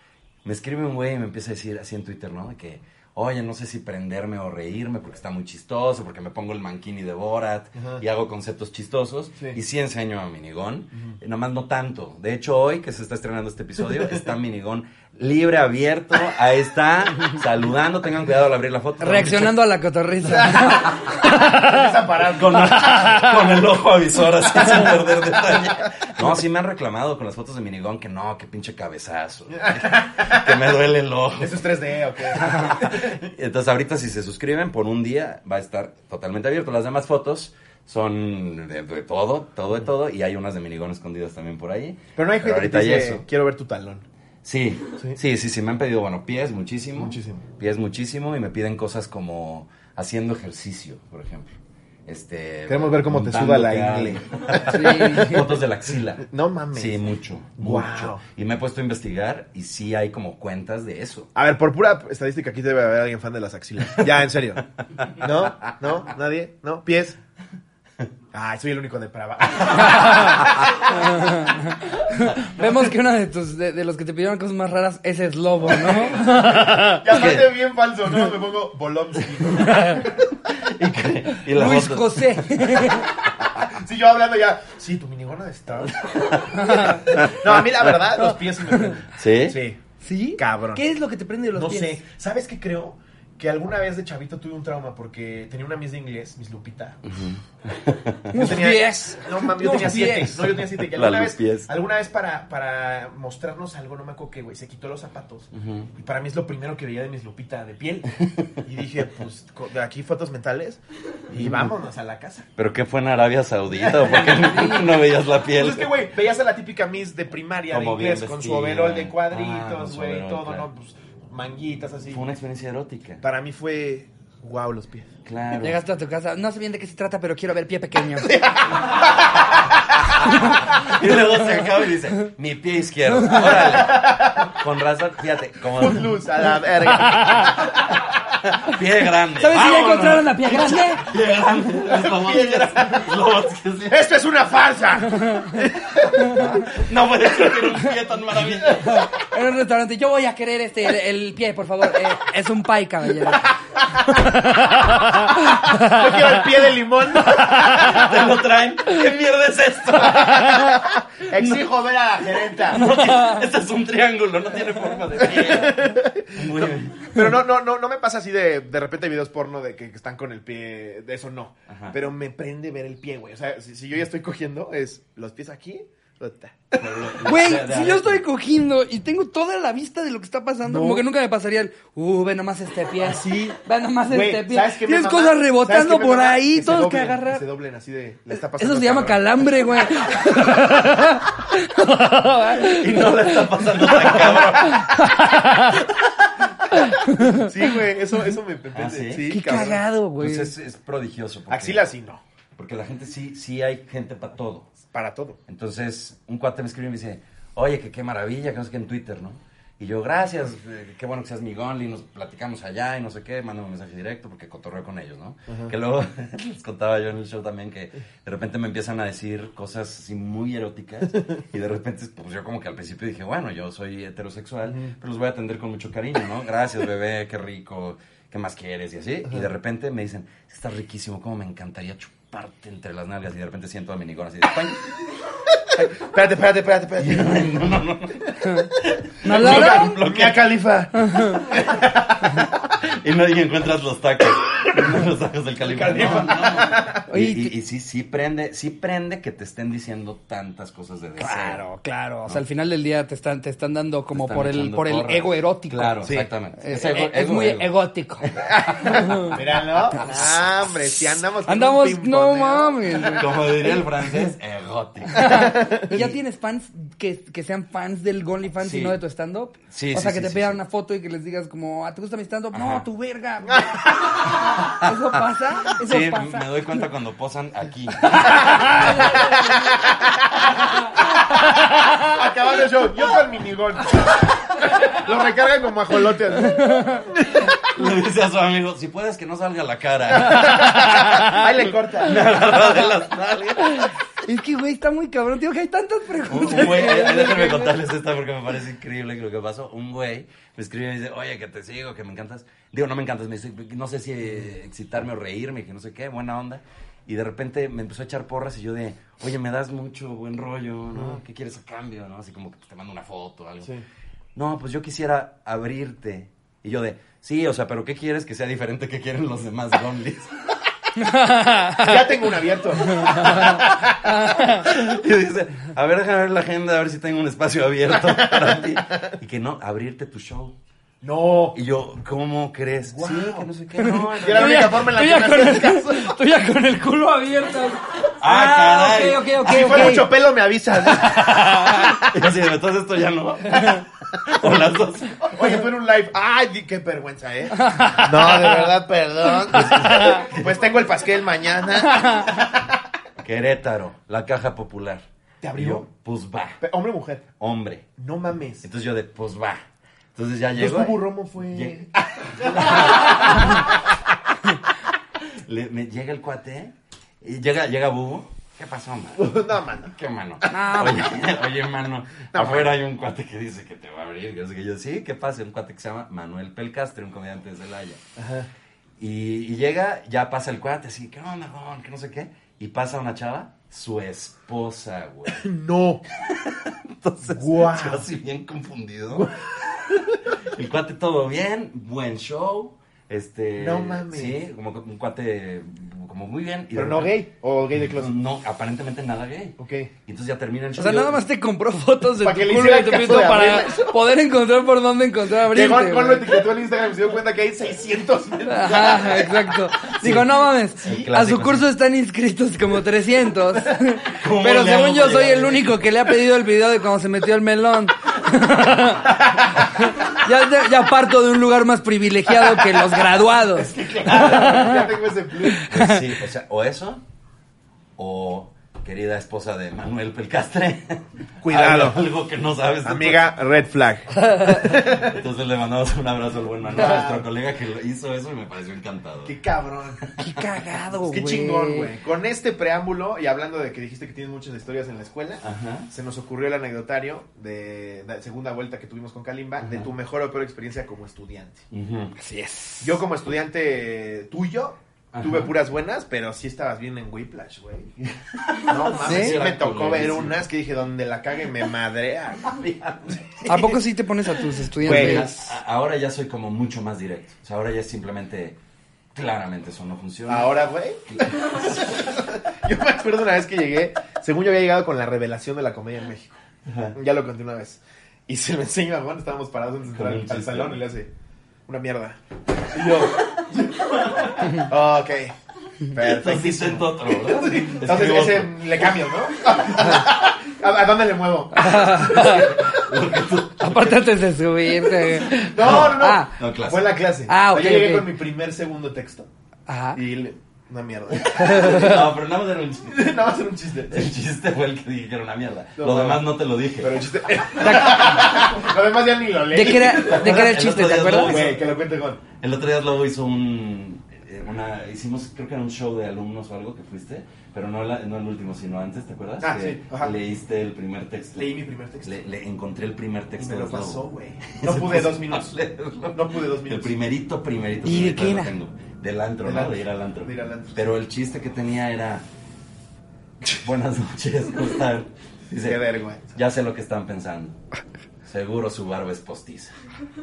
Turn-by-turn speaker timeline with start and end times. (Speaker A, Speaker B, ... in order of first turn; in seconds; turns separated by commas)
Speaker A: 0.4-19.6, Speaker B: 7.8-8.0, Speaker C: 19.0-22.0, Speaker A: 20.3-21.1, Speaker B: 20.4-23.0, Speaker A: 22.3-31.6, Speaker C: 22.5-23.5, Speaker C: 24.6-24.9, Speaker B: 29.5-30.6, Speaker B: 31.4-33.3, Speaker A: 32.3-43.2, Speaker B: 42.1-44.0, Speaker A: 44.4-51.5, Speaker B: 47.0-47.4, Speaker A: 52.1-61.3, Speaker B: 52.7-55.3, Speaker C: 54.6-55.5, Speaker B: 56.2-57.0, Speaker B: 57.6-58.2, Speaker B: 61.4-64.6, Speaker A: 65.0-65.3, Speaker B: 65.2-67.2, Speaker B: 68.3-70.8, Speaker C: 69.7-77.0, Speaker B: 76.8-80.2, Speaker A: 77.1-77.5, Speaker C: 79.6-80.0, Speaker A: 80.5-82.5, Speaker C: 81.5-83.1, Speaker B: 83.4-89.8, Speaker A: 86.0-88.0, Speaker C: 86.5-87.2, Speaker C: 88.2-89.0, Speaker A: 89.1-89.6, Speaker C: 90.0-92.0, Speaker B: 90.4-90.8, Speaker B: 91.5-97.0, Speaker A: 97.1-98.3, Speaker C: 98.3-100.5, Speaker B: 98.3-112.5, Speaker A: 100.8-101.7, Speaker A: 105.5-105.9, Speaker A: 108.2-108.6, Speaker A: 111.3-111.7, Speaker A: 112.6-115.9, Speaker B: 113.7-114.9, Speaker C: 114.5-114.8, Speaker B: 115.5-122.2, Speaker A: 117.7-120.7, Speaker A: 122.1-123.2, Speaker B: 123.2-125.1, Speaker A: 125.2-125.8, Speaker C: 125.6-128.4, Speaker B: 128.2-129.8, Speaker C: 130.2-130.9, Speaker A: 130.3-136.2, Speaker C: 133.1-133.7, Speaker B: 133.3-134.6, Speaker B: 135.7-138.1, Speaker C: 136.9-137.6, Speaker A: 138.4-144.0, Speaker C: 139.4-141.1, Speaker B: 141.8-143.1, Speaker B: 143.9-146.7, Speaker C: 145.1-145.6, Speaker A: 146.1-149.1, Speaker C: 146.2-146.6, Speaker B: 148.5-148.8, Speaker C: 148.8-156.4, Speaker B: 155.7-158.2, Speaker C: 157.3-158.2, Speaker A: 157.3-161.7, Speaker B: 160.0-162.9, Speaker C: 160.1-160.8, Speaker A: 162.6-167.3, Speaker C: 162.9-163.4, Speaker B: 165.2-177.1, Speaker A: 171.7-171.9, Speaker A: 176.8-178.2, Speaker C: 177.2-187.4, Speaker B: 180.6-181.1, Speaker B: 183.0-190.1, Speaker C: 188.3-195.9, Speaker A: 192.6-195.1, Speaker C: 196.7-197.5, Speaker B: 197.3-199.8, Speaker A: 198.7-199.4, Speaker C: 199.3-200.5, Speaker A: 200.2-201.9, Speaker B: 201.5-202.2, Speaker A: 202.6-204.7, Speaker B: 204.9-205.4, Speaker A: 205.5-234.9, Speaker B: 215.5-215.7, Speaker B: 224.7-224.9, Speaker B: 235.6-237.6, Speaker A: 237.0-240.5, Speaker C: 238.4-238.7, Speaker C: 239.2-239.9, Speaker B: 239.2-242.6, Speaker C: 240.9-241.4, Speaker A: 241.7-251.6, Speaker B: 244.6-244.9, Speaker B: 245.6-247.0, Speaker C: 247.1-247.5, Speaker C: 251.2-256.0, Speaker A: 254.1-259.4, Speaker B: 256.0-256.3, Speaker C: 256.6-259.4, Speaker B: 258.5-263.2, Speaker A: 259.9-260.3, Speaker C: 261.4-263.8, Speaker A: 263.1-266.1, Speaker C: 265.1-276.6, Speaker B: 265.2-266.1, Speaker A: 268.6-269.0, Speaker A: 269.7-270.6, Speaker A: 272.5-272.9, Speaker B: 273.5-274.4, Speaker A: 274.4-275.0, Speaker A: 275.8-279.3, Speaker C: 278.0-279.8, Speaker B: 279.1-280.5, Speaker C: 280.9-282.1, Speaker B: 282.0-287.7, Speaker C: 286.4-287.1, Speaker A: 287.6-293.9, Speaker B: 290.1-292.6, Speaker C: 290.3-291.4, Speaker C: 293.6-297.7, Speaker A: 296.3-313.7, Speaker A: 314.4-320.6, Speaker C: 321.0-322.0, Speaker B: 321.8-323.9, Speaker C: 322.9-324.6, Speaker A: 323.0-323.8, Speaker A: 324.4-330.6, Speaker B: 327.9-329.1, Speaker B: 331.0-331.6, Speaker A: 331.5-334.8, Speaker B: 332.9-333.5, Speaker C: 333.8-340.1, Speaker B: 334.2-336.1, Speaker A: 338.2-339.4, Speaker B: 339.4-342.1, Speaker C: 340.9-342.0, Speaker A: 342.0-345.4, Speaker C: 343.6-343.8, Speaker B: 343.6-344.4, Speaker B: 345.2-352.7, Speaker C: 347.5-348.7, Speaker A: 349.5-350.7, Speaker C: 349.5-350.2, Speaker C: 351.9-352.3, Speaker A: 353.2-355.0, Speaker B: 355.4-355.9, Speaker A: 355.6-356.6, Speaker B: 356.6-357.3, Speaker A: 357.4-357.9, Speaker B: 358.0-358.6, Speaker A: 358.6-359.6, Speaker A: 360.1-363.7, Speaker B: 360.6-363.8, Speaker A: 365.2-369.3, Speaker B: 369.2-369.9, Speaker A: 369.9-378.0, Speaker C: 370.4-371.1, Speaker B: 372.3-372.7, Speaker B: 378.2-378.5, Speaker A: 379.0-385.4, Speaker B: 385.3-386.0, Speaker A: 386.1-397.1, Speaker B: 387.2-388.1, Speaker B: 389.1-390.2, Speaker B: 393.6-394.4, Speaker B: 396.7-398.1, Speaker A: 397.8-401.2, Speaker B: 399.6-399.9, Speaker C: 400.8-406.4, Speaker B: 402.1-404.0, Speaker B: 405.4-410.2, Speaker C: 408.4-424.9, Speaker A: 410.0-410.3, Speaker A: 410.8-411.7, Speaker A: 414.1-415.9, Speaker B: 419.3-419.6, Speaker B: 422.5-422.8, Speaker B: 423.4-425.7, Speaker A: 424.1-424.6, Speaker C: 425.4-426.1, Speaker A: 425.7-427.0, Speaker A: 428.0-433.3, Speaker B: 431.4-432.0, Speaker B: 432.8-435.2, Speaker C: 434.2-434.7, Speaker A: 434.7-439.4, Speaker B: 436.6-437.3, Speaker B: 439.3-440.0, Speaker A: 440.0-440.6, Speaker C: 440.2-441.9, Speaker B: 441.1-451.6, Speaker A: 445.4-445.9, Speaker A: 449.6-449.9, Speaker A: 451.7-452.1, Speaker C: 452.2-453.0, Speaker B: 452.8-457.9, Speaker A: 455.1-455.5, Speaker A: 458.3-460.5, Speaker B: 458.6-463.8, Speaker C: 459.0-459.4, Speaker A: 462.5-463.8, Speaker C: 463.4-465.5, Speaker A: 464.8-468.6, Speaker B: 464.8-465.3, Speaker A: 469.1-470.5, Speaker B: 470.3-476.4, Speaker A: 471.1-472.1, Speaker A: 476.6-476.9, Speaker B: 476.9-481.1, Speaker A: 479.9-480.8, Speaker B: 481.7-482.2, Speaker B: 482.7-485.3, Speaker A: 483.5-484.7, Speaker B: 485.9-492.3, Speaker A: 485.9-488.9, Speaker C: 491.5-492.7, Speaker A: 491.9-494.1, Speaker C: 493.6-496.3, Speaker B: 495.2-499.3, Speaker A: 495.3-496.8, Speaker C: 497.3-498.1, Speaker C: 499.7-500.0, Speaker B: 499.9-501.9, Speaker A: 501.1-503.1, Speaker C: 501.3-502.1, Speaker B: 502.9-504.1, Speaker A: 503.9-507.1, Speaker B: 505.8-506.3, Speaker B: 506.8-510.4, Speaker C: 507.6-508.3, Speaker C: 509.5-511.4, Speaker A: 509.8-511.6, Speaker B: 511.2-512.2, Speaker A: 512.4-521.5, Speaker B: 519.4-520.2, Speaker B: 521.4-522.2, Speaker A: 522.0-532.2, Speaker B: 523.4-525.5, Speaker B: 526.1-527.0, Speaker C: 527.9-528.5, Speaker B: 529.4-531.0, Speaker A: 533.5-535.8, Speaker B: 535.6-536.4, Speaker A: 536.3-537.6, Speaker A: 538.2-539.7